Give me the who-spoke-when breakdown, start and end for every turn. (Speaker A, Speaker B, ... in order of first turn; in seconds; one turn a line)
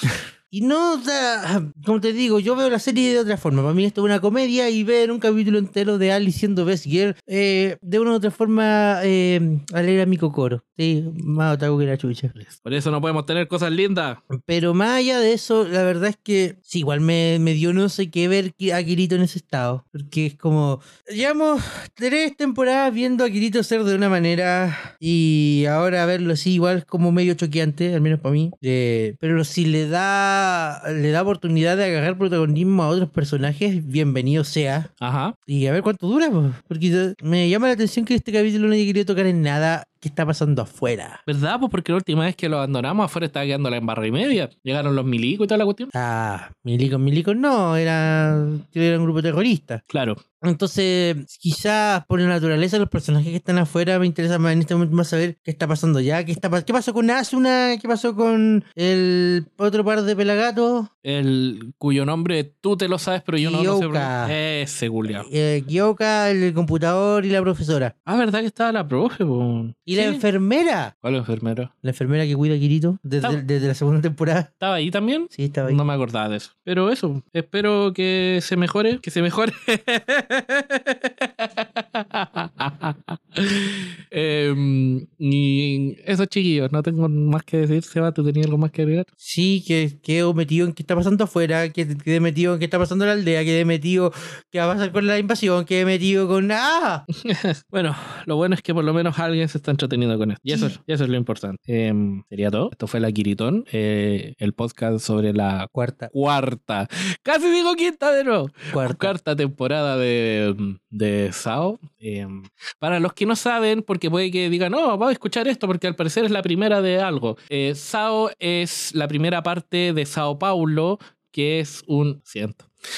Speaker A: 0.5-12.3
Speaker B: 12.4-14.2
Speaker A: 14.3-34.9
Speaker B: 35.0-35.4
Speaker A: 35.5-41.2
Speaker B: 41.3-45.9
Speaker A: 45.9-49.8
Speaker B: 49.9-50.2
Speaker A: 50.4-60.9
Speaker B: 61.0-65.3
Speaker A: 63.4-64.4
Speaker A: 65.1-67.9
Speaker B: 68.1-70.2
Speaker A: 69.9-70.9
Speaker B: 71.0-71.7
Speaker A: 71.8-74.5
Speaker B: 74.6-89.1
Speaker A: 75.3-75.8
Speaker A: 89.2-97.0
Speaker B: 97.2-122.7
Speaker A: 100.5-100.7
Speaker A: 105.7-106.1
Speaker A: 108.7-109.1